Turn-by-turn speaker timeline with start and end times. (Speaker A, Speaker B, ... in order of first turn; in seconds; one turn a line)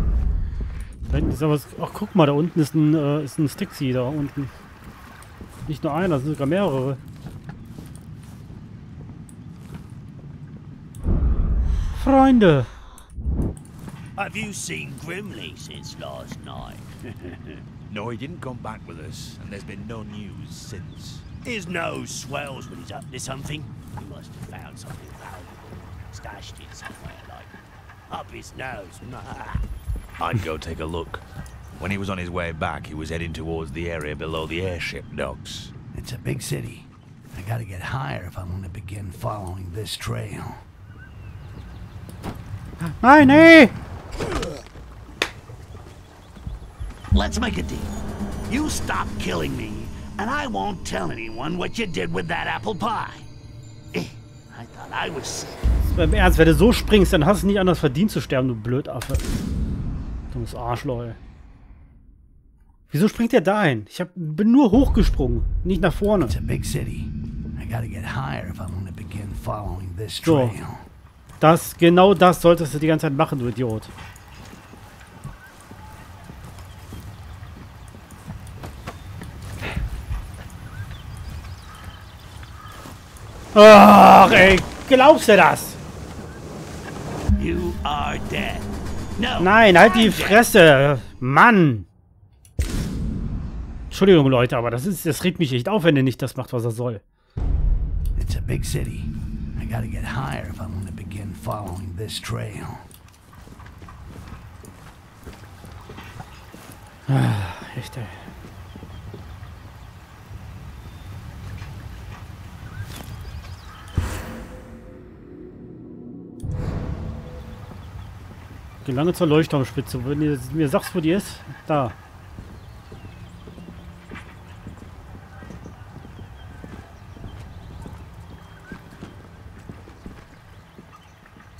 Speaker A: 1.1-4.5
Speaker A: 5.7-7.0
Speaker A: 11.9-12.7
Speaker B: 14.2-17.4
Speaker C: 17.9-21.2
Speaker B: 21.4-27.5
Speaker B: 28.1-29.6
Speaker C: 30.2-31.2
Speaker C: 31.8-35.7
Speaker D: 35.9-40.6
Speaker A: 42.9-43.7
Speaker B: 47.1-47.9
Speaker B: 48.5-53.3
Speaker B: 53.9-55.6
Speaker A: 55.9-59.2
Speaker A: 60.3-61.2
Speaker A: 62.9-66.3
Speaker D: 66.2-70.8
Speaker A: 70.2-70.6
Speaker A: 71.4-73.9
Speaker A: 83.5-85.8
Speaker B: 87.4-90.4
Speaker A: 89.4-91.9
Speaker A: 93.9-97.0
Speaker D: 98.2-102.9
Speaker A: 107.1-108.2
Speaker A: 118.8-122.0